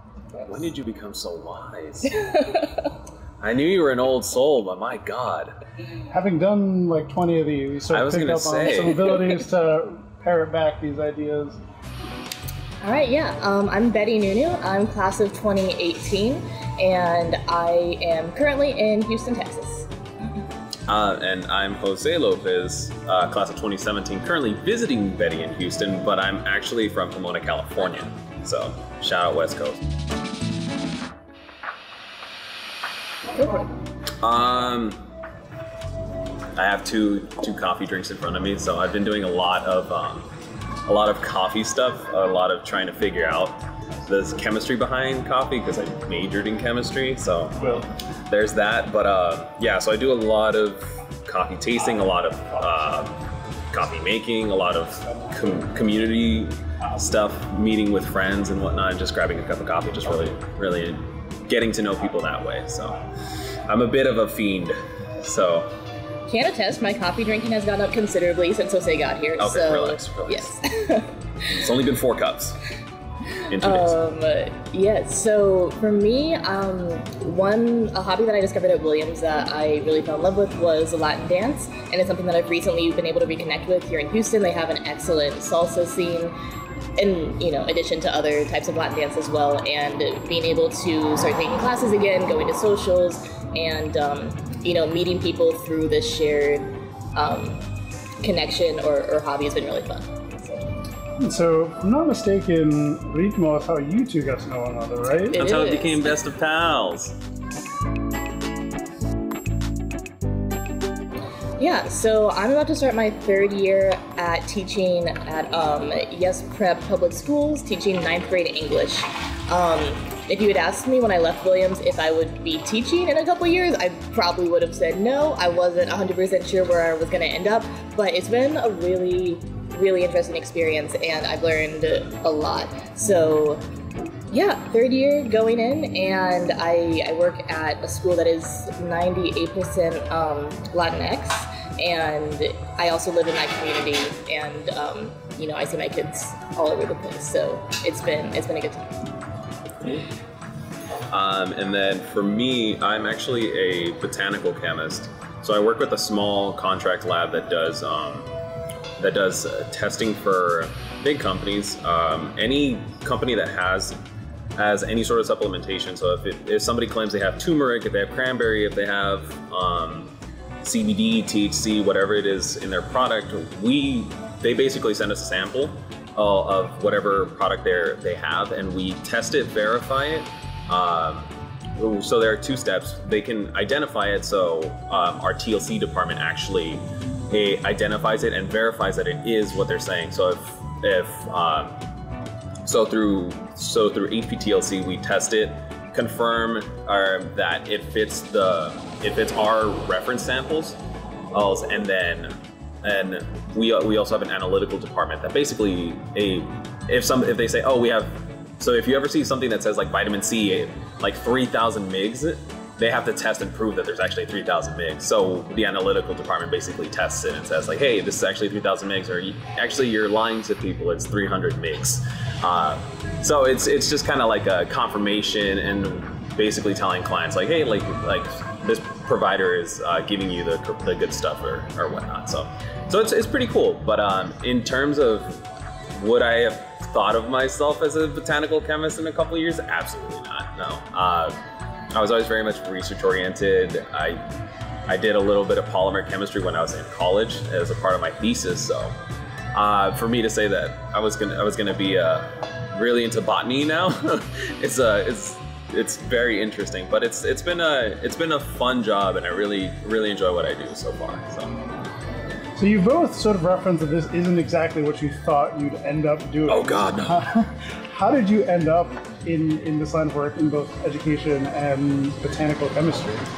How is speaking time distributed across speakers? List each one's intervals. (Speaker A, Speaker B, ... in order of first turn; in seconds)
Speaker A: 0.4-2.4, 3.4-5.5, 7.9-9.3, 20.9-29.8, 34.2-35.0, 36.6-40.3, 40.9-65.8, 69.4-70.6, 71.5-72.6, 73.5-74.0, 105.3-107.2, 151.1-158.3, 159.0-164.0, 164.6-170.1, 170.6-191.8, 192.7-200.8, 201.3-235.4, 236.0-241.4, 241.9-244.2, 244.9-249.0, 249.5-261.6, 266.5-267.2
Speaker B: 6.1-11.6, 101.2-105.4, 262.6-273.3
Speaker C: 12.8-19.9, 66.3-71.7, 73.4-86.3, 87.0-97.7, 98.2-100.7, 105.3-106.2, 111.6-133.6, 134.3-149.0